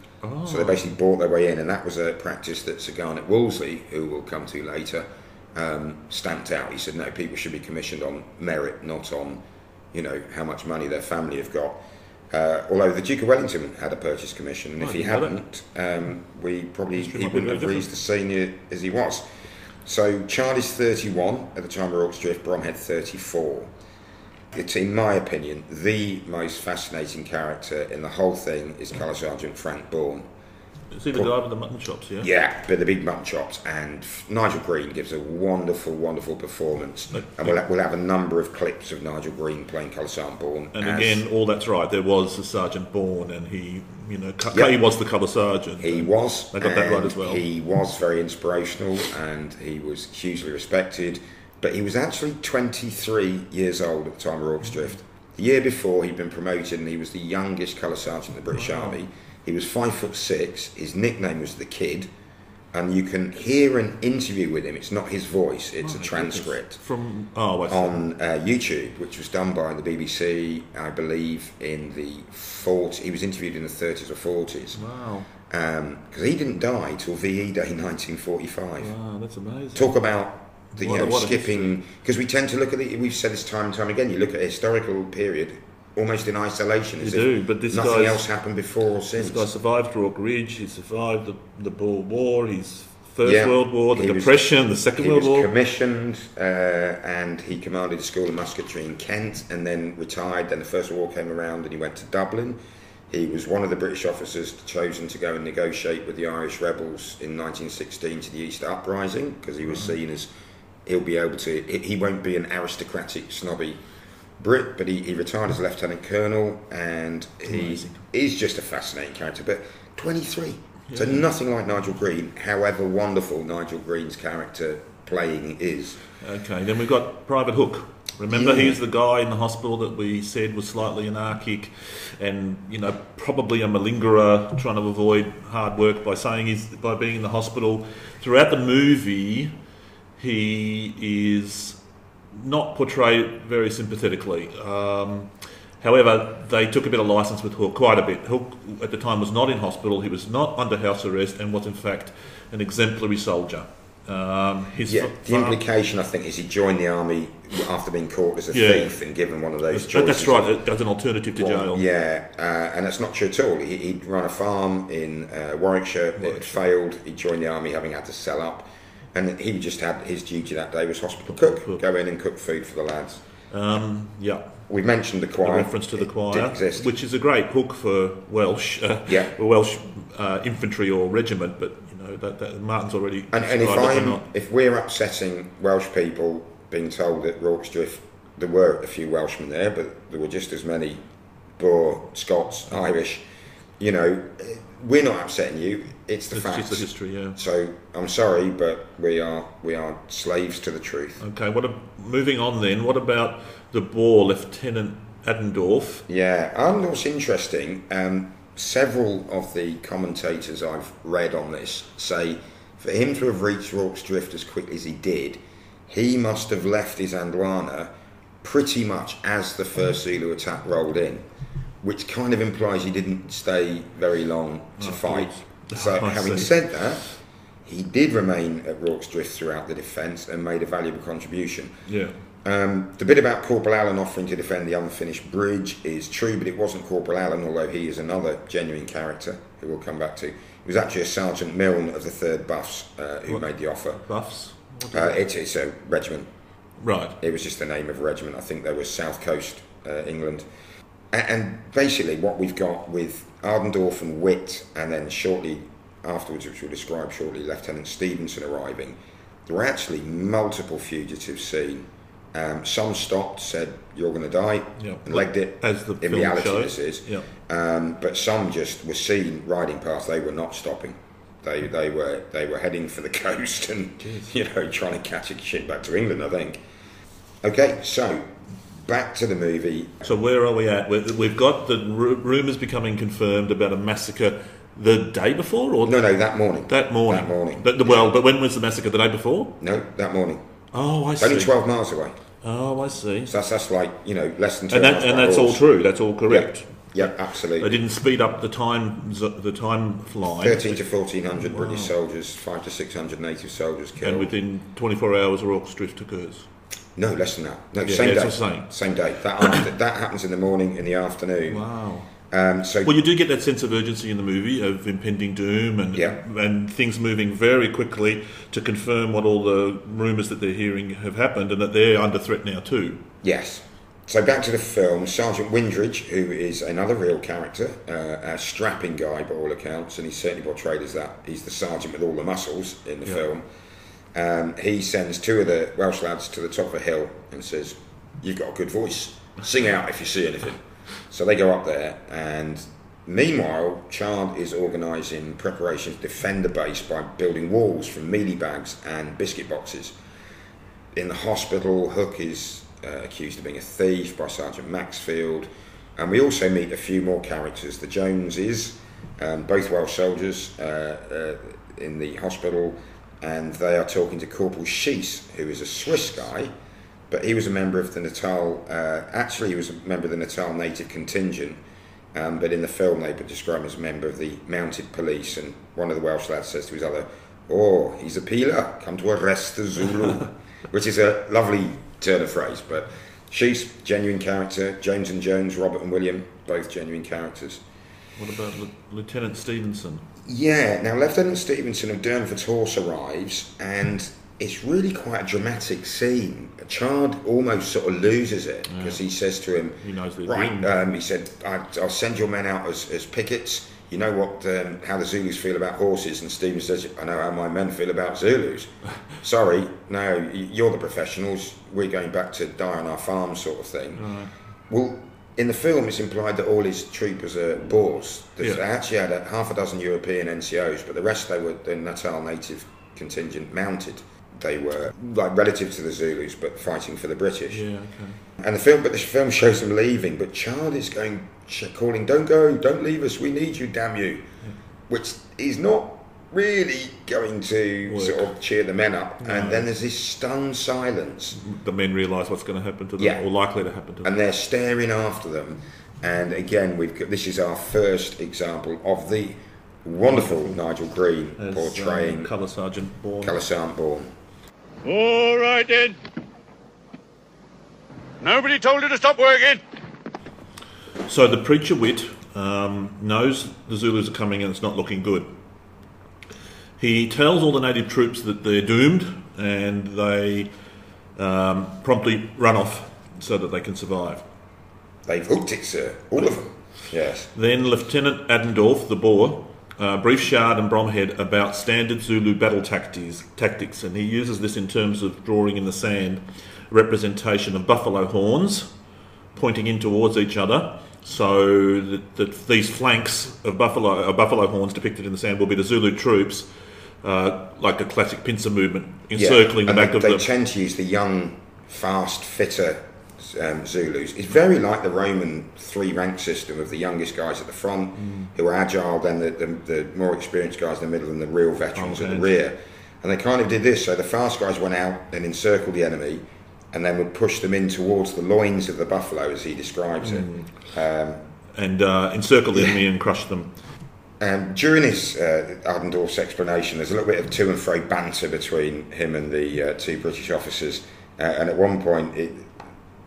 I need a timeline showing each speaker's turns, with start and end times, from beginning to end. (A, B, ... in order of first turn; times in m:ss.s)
0:00.2-0:00.9 A
0:00.4-0:19.3 B
0:14.8-0:15.4 A
0:16.9-0:17.9 A
0:19.8-0:23.7 B
0:24.5-0:30.3 B
0:30.9-0:32.3 A
0:32.2-0:41.2 B
0:37.1-0:37.5 A
0:40.7-0:47.4 A
0:44.5-0:44.8 B
0:45.8-1:02.1 B
0:54.6-0:54.9 A
0:58.5-0:59.0 A
1:02.7-1:06.8 B
1:05.8-1:08.0 A
1:07.7-1:14.8 B
1:14.7-1:15.3 A
1:15.4-1:18.9 B
1:18.8-1:19.9 A
1:19.7-1:29.5 B
1:20.7-1:21.7 A
1:27.0-1:28.2 A
1:29.2-1:35.5 A
1:33.2-1:42.6 B
1:43.1-1:50.3 B
1:49.7-1:50.0 A
1:50.8-1:53.8 B
1:54.4-2:06.0 B
1:57.4-1:58.0 A
2:00.9-2:01.3 A
2:06.2-2:19.5 A
2:08.3-2:08.8 B
2:20.2-2:21.8 A
2:22.3-2:35.6 A
2:34.9-2:40.6 B
2:38.5-2:38.9 A
2:39.7-2:41.8 A
2:41.4-2:53.2 B
2:46.2-2:46.5 A
2:51.3-2:51.8 A
2:53.5-2:54.5 A
2:54.7-2:56.9 B
2:55.4-3:04.3 A
2:59.1-2:59.3 B
3:03.3-3:11.0 B
3:11.6-3:13.2 B
3:13.8-3:21.2 B
3:16.3-3:17.4 A
3:21.2-3:26.0 A
3:26.1-3:41.2 B
3:41.8-3:47.1 B
3:44.8-3:46.6 A
3:47.6-3:51.7 B
3:51.9-3:52.2 A
3:52.4-4:04.0 B
4:03.3-4:05.2 A
4:04.9-4:06.3 B
4:06.8-4:07.2 A
4:07.2-4:10.4 B
4:11.1-4:36.6 B
4:24.8-4:27.3 A
4:34.0-4:34.3 A
4:37.4-4:40.0 B
4:40.0-4:46.0 A
4:45.8-4:48.1 B
4:46.7-4:49.6 A
4:49.6-4:50.4 B
4:50.7-4:51.5 A
4:51.2-4:52.2 B
4:52.4-4:53.3 A
4:53.3-4:55.6 B
4:54.7-5:00.8 A
4:56.2-4:57.8 B
5:00.3-5:04.3 B
5:01.4-5:01.9 A
5:04.0-5:06.5 A
5:07.0-5:11.6 B
5:07.8-5:08.7 A
5:11.5-5:12.1 A
5:12.3-5:13.0 B
5:12.8-5:23.0 A
5:15.9-5:16.2 B
5:23.2-5:33.4 B
5:34.1-5:50.0 B
5:50.9-6:06.5 B
6:07.1-6:11.6 B
6:12.1-6:27.6 B
6:28.2-6:30.1 A
6:30.2-6:54.1 B
6:38.7-6:39.0 A
6:39.8-6:40.7 A
6:54.0-6:54.3 A
6:54.7-7:07.7 B
7:07.5-7:08.2 A
7:08.4-7:14.3 B
7:14.9-7:21.4 B
7:17.8-7:18.3 A
7:19.2-7:19.7 A
7:21.3-7:24.1 A
7:23.0-7:23.2 B
7:24.0-7:32.3 B
7:30.1-7:30.5 A
7:31.4-7:33.4 A
7:33.2-7:34.1 B
7:34.8-7:36.0 C
7:38.2-7:39.6 C
7:41.1-7:45.3 A
7:46.8-7:50.5 A
7:51.2-7:54.2 A
7:55.0-7:57.3 B
7:57.3-8:08.7 A
8:09.3-8:16.5 A
8:17.0-8:20.3 A
8:19.1-8:41.2 B
8:27.9-8:28.3 A
8:31.7-8:32.4 A
8:40.0-8:40.5 A
8:41.5-8:43.5 A
8:44.2-8:52.6 B